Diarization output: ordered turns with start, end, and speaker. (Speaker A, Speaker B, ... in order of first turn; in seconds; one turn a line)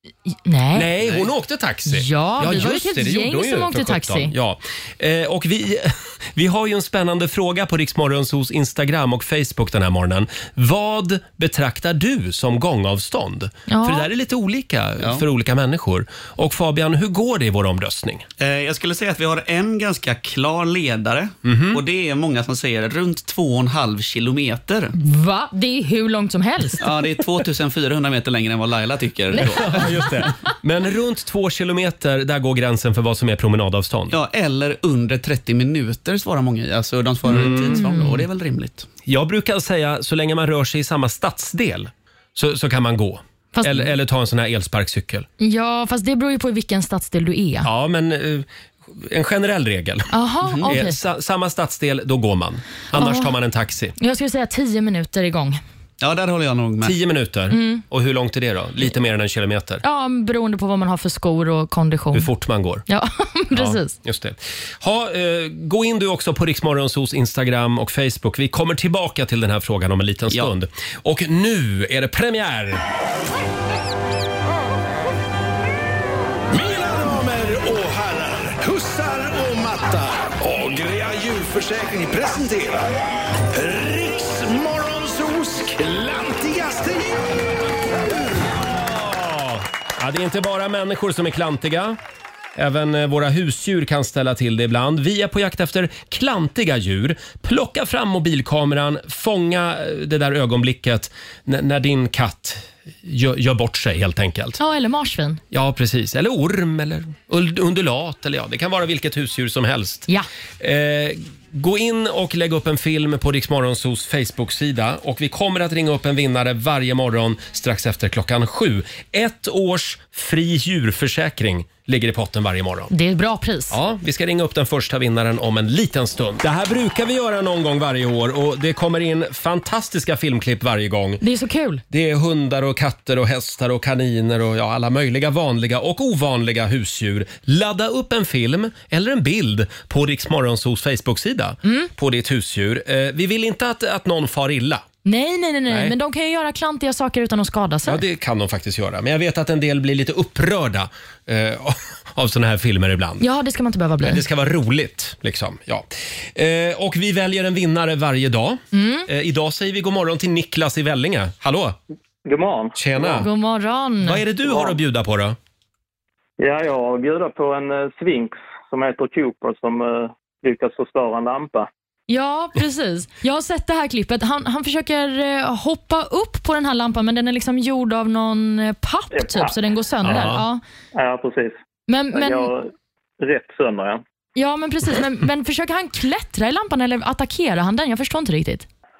Speaker A: 0.3-0.9
Speaker B: 0.7-18.2
Speaker A: 1.9-4.3
Speaker A: 13.7-14.1
Speaker C: 18.4-24.9
Speaker B: 21.4-21.8
Speaker A: 24.9-26.9
Speaker C: 26.8-30.3
Speaker A: 29.4-29.9
Speaker B: 29.4-34.1
Speaker C: 34.1-38.9
Speaker B: 37.3-37.9
Speaker A: 37.5-38.2
Speaker B: 39.0-45.3
Speaker A: 43.5-43.9
Speaker A: 45.4-47.7
Speaker B: 47.6-50.1
Speaker A: 50.1-51.0
Speaker B: 50.6-54.0
Speaker A: 52.9-53.3
Speaker A: 54.0-55.6
Speaker C: 56.0-57.0
Speaker B: 56.8-59.8
Speaker A: 57.5-57.8
Speaker A: 59.8-62.3
Speaker B: 62.1-62.8
Speaker A: 62.9-63.9
Speaker B: 63.5-72.8
Speaker D: 76.5-82.9
Speaker D: 83.5-87.4
Speaker B: 88.5-92.0
Speaker B: 92.5-104.6
Speaker A: 104.6-105.4
Speaker B: 105.5-110.1
Speaker B: 110.6-122.9
Speaker A: 122.9-123.8
Speaker B: 123.7-131.2
Speaker A: 131.2-131.8
Speaker B: 131.9-144.8
Speaker A: 141.6-141.9
Speaker A: 145.0-148.0
Speaker B: 145.7-145.9
Speaker B: 147.8-153.2
Speaker A: 153.2-154.2
Speaker B: 154.0-161.8
Speaker A: 158.7-159.1
Speaker E: 162.2-163.2
Speaker B: 162.8-163.3
Speaker A: 163.2-164.2
Speaker B: 164.0-165.4
Speaker E: 164.4-164.8
Speaker E: 166.4-171.7
Speaker A: 172.1-180.6
Speaker E: 179.1-179.5
Speaker B: 180.0-180.4
Speaker E: 180.9-181.6
Speaker A: 181.9-182.5
Speaker E: 182.1-184.0
Speaker A: 184.3-188.7